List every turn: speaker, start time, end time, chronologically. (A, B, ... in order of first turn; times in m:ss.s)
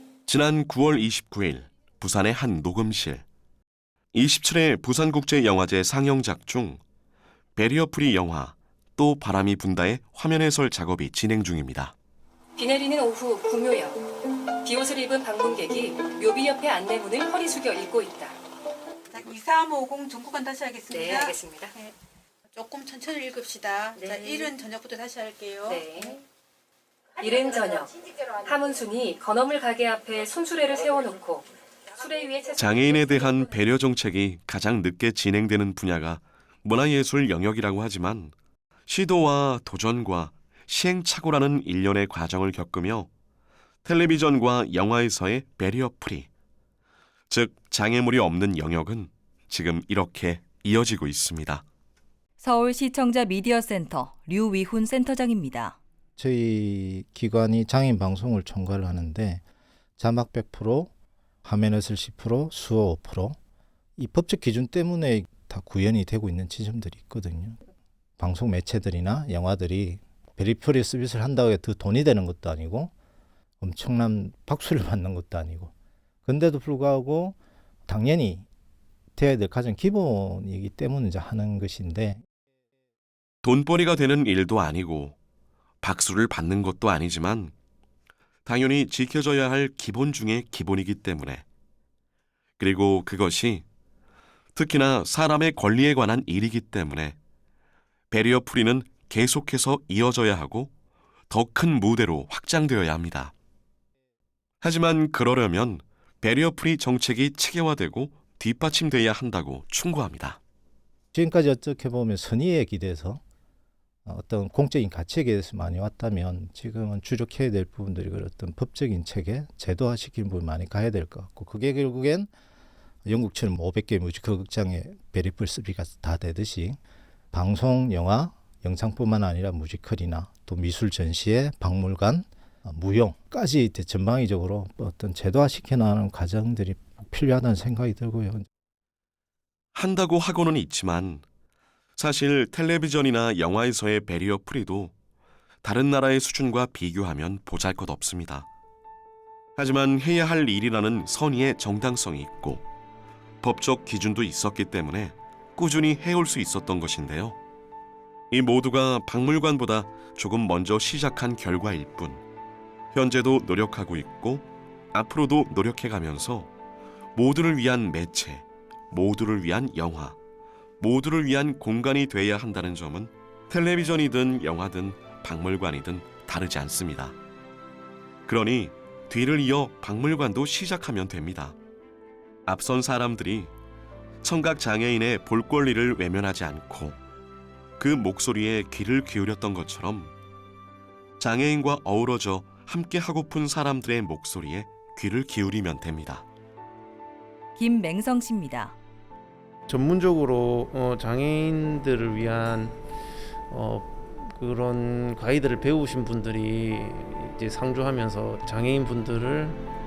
0:00.3-0:03.2 A
0:04.1-0:06.8 A
0:07.6-0:11.9 A
0:12.6-0:18.4 B
0:19.1-0:21.9 C
0:20.9-0:21.7 B
0:22.5-0:26.1 C
0:24.0-0:24.5 B
0:25.7-0:26.2 B
0:27.2-0:33.3 B
0:32.6-0:38.3 A
0:38.9-0:43.1 A
0:43.8-0:46.3 A
0:47.3-0:51.6 A
0:52.4-0:55.8 D
0:56.2-0:59.4 E
1:00.0-1:00.9 E
1:01.4-1:03.4 E
1:04.0-1:07.6 E
1:08.2-1:12.9 E
1:13.6-1:15.7 E
1:16.2-1:17.4 E
1:17.9-1:18.5 E
1:19.2-1:22.2 E
1:23.4-1:25.2 A
1:25.8-1:27.5 A
1:28.5-1:31.4 A
1:32.6-1:33.6 A
1:34.6-1:37.2 A
1:38.1-1:40.7 A
1:41.3-1:43.3 A
1:44.6-1:50.4 A
1:51.1-1:53.2 E
1:54.1-2:02.3 E
2:03.1-2:06.8 E
2:07.3-2:18.4 E
2:19.8-2:21.2 A
2:22.0-2:24.9 A
2:25.6-2:28.5 A
2:29.6-2:32.6 A
2:33.4-2:37.4 A
2:38.3-2:42.2 A
2:42.9-2:46.5 A
2:47.2-2:50.2 A
2:50.8-2:57.2 A
2:58.3-3:01.6 A
3:02.5-3:03.5 A
3:04.2-3:07.0 A
3:07.8-3:10.1 A
3:11.2-3:16.3 A
3:17.6-3:18.8 D
3:19.7-3:22.8 F
3:23.5-3:29.6 F